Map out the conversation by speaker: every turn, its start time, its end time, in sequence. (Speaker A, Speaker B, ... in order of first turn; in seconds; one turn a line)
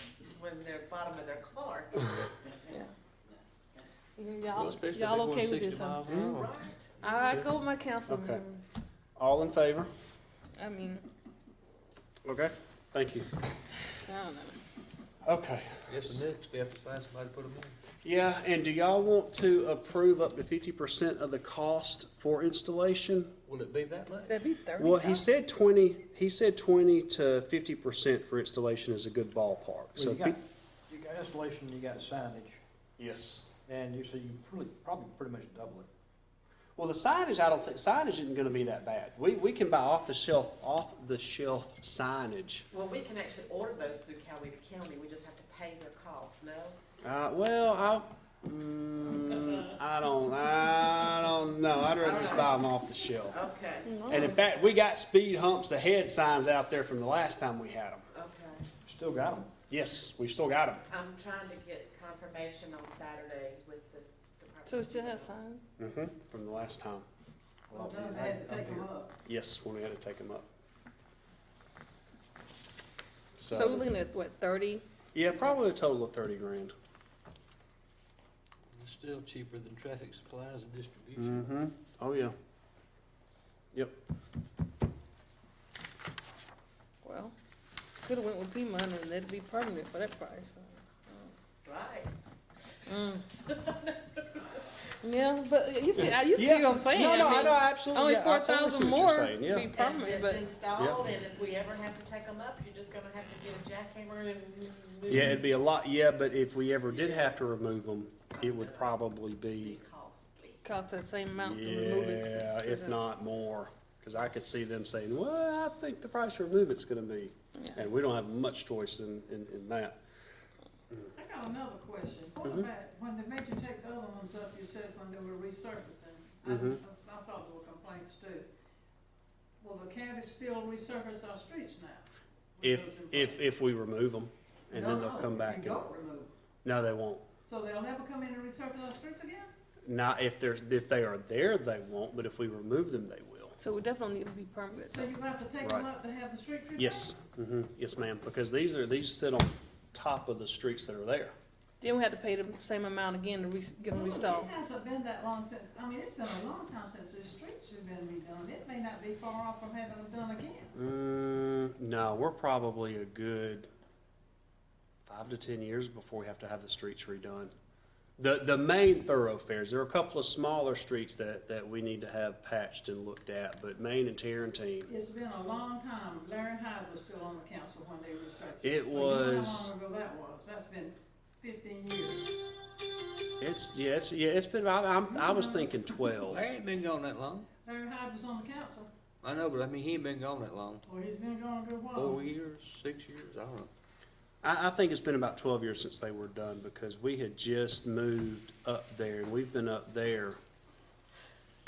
Speaker A: 0.3-2.2
Speaker B: 4.2-6.1
Speaker C: 4.5-6.5
Speaker A: 6.1-7.0
Speaker B: 7.0-8.6
Speaker C: 7.2-7.5
Speaker D: 8.1-8.4
Speaker D: 9.2-9.9
Speaker B: 10.6-11.1
Speaker D: 12.2-13.4
Speaker B: 13.9-14.6
Speaker D: 15.2-16.3
Speaker C: 15.9-17.7
Speaker D: 18.0-23.3
Speaker C: 23.5-24.4
Speaker B: 24.3-25.2
Speaker D: 24.8-30.4
Speaker E: 29.9-32.6
Speaker D: 33.0-33.5
Speaker E: 33.7-35.9
Speaker D: 36.8-42.7
Speaker A: 42.7-46.8
Speaker D: 47.0-53.4
Speaker A: 52.0-52.6
Speaker A: 53.3-54.3
Speaker B: 53.9-54.3
Speaker D: 54.1-58.0
Speaker A: 58.1-58.6
Speaker E: 58.9-59.5
Speaker D: 59.7-60.8
Speaker A: 60.9-65.4
Speaker B: 64.7-65.7
Speaker D: 65.8-67.0
Speaker E: 67.7-68.9
Speaker F: 67.7-69.2
Speaker D: 69.3-70.5
Speaker D: 73.4-73.9
Speaker B: 73.5-74.8
Speaker D: 75.2-76.7
Speaker C: 78.7-81.4
Speaker D: 81.2-82.3
Speaker D: 83.7-84.0
Speaker B: 87.0-87.3
Speaker B: 88.1-91.3
Speaker A: 91.6-92.1
Speaker B: 92.9-93.2
Speaker A: 93.5-94.6
Speaker B: 95.0-100.4
Speaker D: 96.3-99.7
Speaker A: 99.7-105.5
Speaker D: 105.1-109.8
Speaker A: 106.9-107.6
Speaker A: 108.3-110.6
Speaker B: 110.6-113.0
Speaker D: 111.4-120.0
Speaker F: 121.2-128.5
Speaker D: 126.5-126.8
Speaker F: 129.6-133.4
Speaker D: 132.6-135.8
Speaker F: 134.7-136.3
Speaker D: 136.6-137.2
Speaker F: 137.4-139.5
Speaker D: 139.9-143.6
Speaker B: 143.6-145.1
Speaker F: 144.9-147.1
Speaker D: 145.6-145.9
Speaker D: 146.8-151.3
Speaker B: 151.8-154.5
Speaker F: 153.9-160.8
Speaker D: 160.8-163.7
Speaker D: 165.1-167.5
Speaker D: 168.2-174.9
Speaker F: 174.9-182.3
Speaker D: 178.6-179.7
Speaker D: 183.4-186.4
Speaker F: 185.1-185.7
Speaker C: 186.3-187.5
Speaker F: 187.6-188.9
Speaker C: 189.2-190.8
Speaker F: 190.8-192.2
Speaker C: 191.9-193.7
Speaker D: 194.4-200.4